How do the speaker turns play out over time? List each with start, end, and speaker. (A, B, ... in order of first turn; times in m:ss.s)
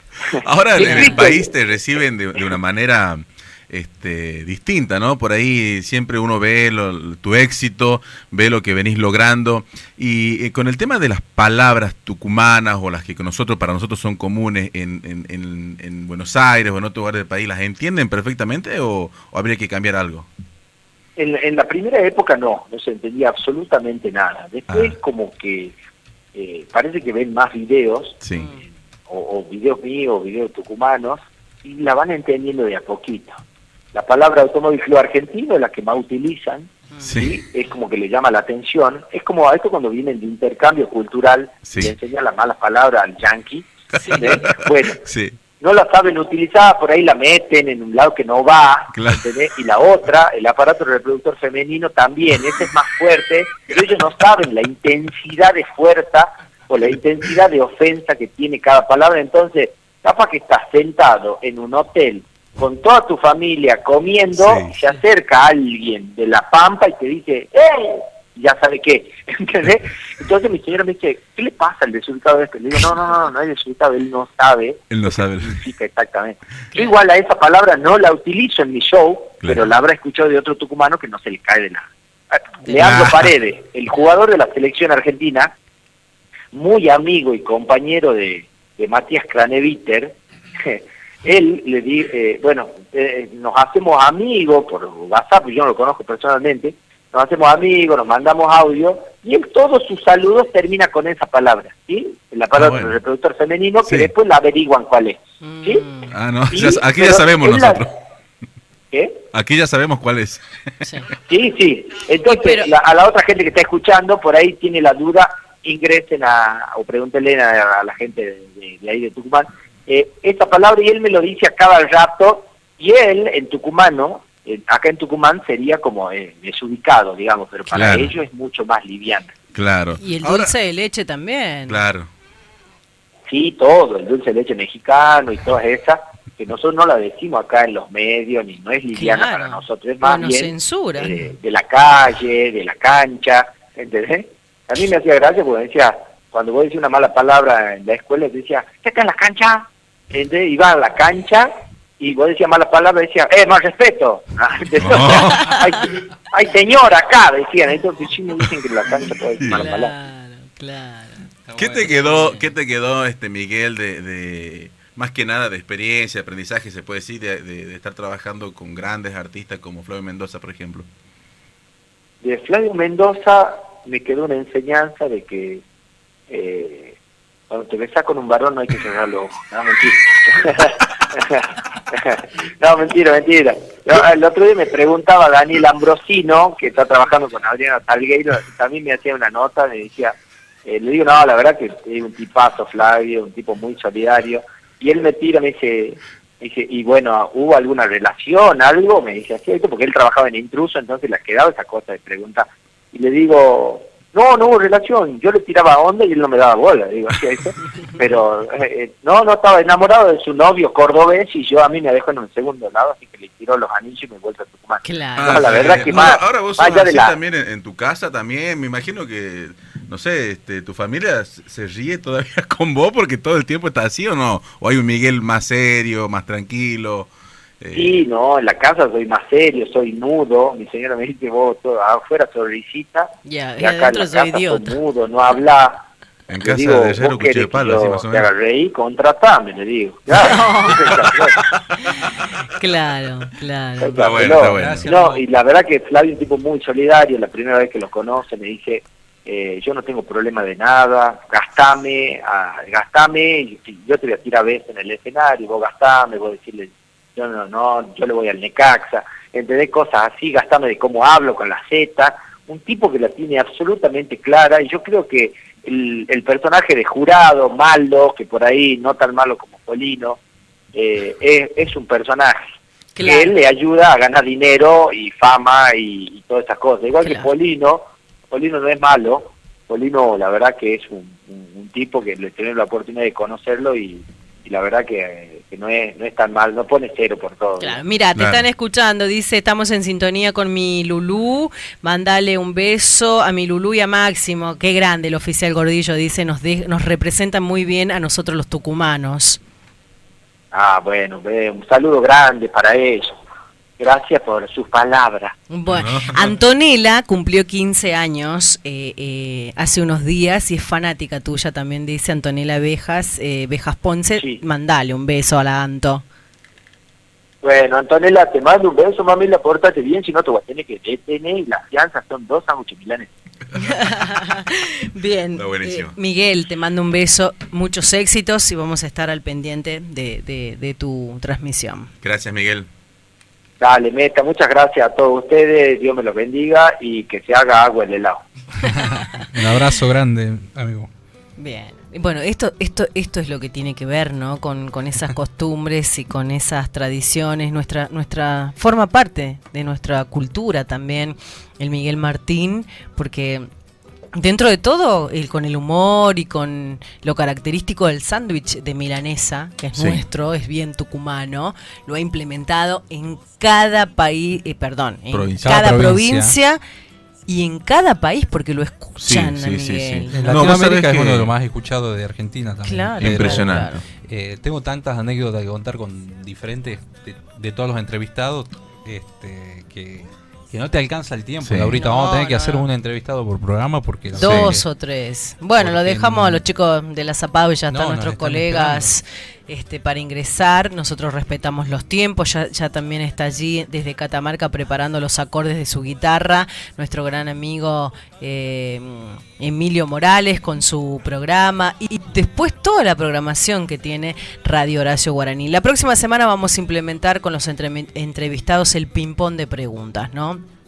0:00.4-0:01.5 A
0:00.4-0:20.3 B
0:00.8-0:01.3 C
0:21.2-0:25.8 A
0:24.7-0:25.0 B
0:26.4-0:28.2 A
0:28.2-0:28.5 B
0:28.3-0:28.6 C
0:29.1-0:33.4 A
0:33.9-0:45.0 A
0:36.9-0:37.2 C
0:37.0-0:37.4 B
0:41.6-0:41.9 B
0:44.0-0:45.4 B
0:44.0-0:44.3 C
0:45.5-1:14.8 A
0:48.9-0:49.3 B
1:04.4-1:04.8 B
1:14.9-1:15.6 B
1:15.4-1:25.5 A
1:22.8-1:23.3 B
1:26.5-1:45.9 A
1:42.6-1:43.0 B
1:43.8-1:44.1 B
1:45.4-1:46.1 C
1:46.1-1:47.9 B
1:46.5-1:47.8 A
1:48.9-1:49.2 A
1:49.3-1:50.4 B
1:51.3-2:09.3 A
1:52.3-1:52.8 C
2:07.7-2:08.0 C
2:07.7-2:08.1 B
2:09.5-2:10.6 B
2:10.0-2:11.8 C
2:11.7-2:12.1 B
2:13.3-2:39.9 A
2:18.9-2:21.2 C
2:34.8-2:35.6 B
2:39.5-2:41.3 C
2:41.5-2:42.3 D
2:41.6-2:50.9 B
2:42.0-2:42.5 C
2:52.2-2:55.6 A
2:56.3-2:57.0 A
2:57.5-3:10.2 A
3:10.7-3:37.2 A
3:34.8-3:36.0 C
3:35.2-3:47.1 B
3:47.6-3:48.0 B
3:47.7-3:55.8 A
3:53.3-3:54.8 C
3:56.3-3:58.3 B
3:56.4-4:01.4 A
4:00.1-4:00.9 C
4:01.3-4:02.0 B
4:02.5-4:04.1 C
4:03.8-4:30.2 A
4:04.0-4:04.9 B
4:04.5-4:05.2 D
4:30.7-4:32.4 A
4:33.0-4:33.3 C
4:33.0-4:47.8 A
4:37.0-4:37.3 C
4:47.6-4:59.4 C
4:48.2-4:48.5 B
5:00.5-5:03.2 A
5:03.8-5:05.4 A
5:05.5-5:16.0 C
5:05.7-5:06.3 B
5:14.2-5:14.4 A
5:17.4-5:23.1 A
5:23.6-5:31.9 C
5:25.4-5:26.0 B
5:32.0-5:32.7 B
5:33.6-5:38.2 A
5:38.8-5:40.9 D
5:41.4-5:53.5 C
5:54.2-6:06.6 C
5:59.8-6:00.0 B
6:05.1-6:05.7 B
6:05.4-6:06.3 D
6:07.3-6:10.1 C
6:09.0-6:11.3 B
6:10.1-6:24.6 D
6:12.6-6:13.8 C
6:13.0-6:13.8 B
6:21.4-6:21.8 B
6:21.7-6:22.7 C
6:24.1-6:24.6 B
6:24.2-6:50.4 C
6:25.6-6:26.4 D
6:27.7-6:28.9 D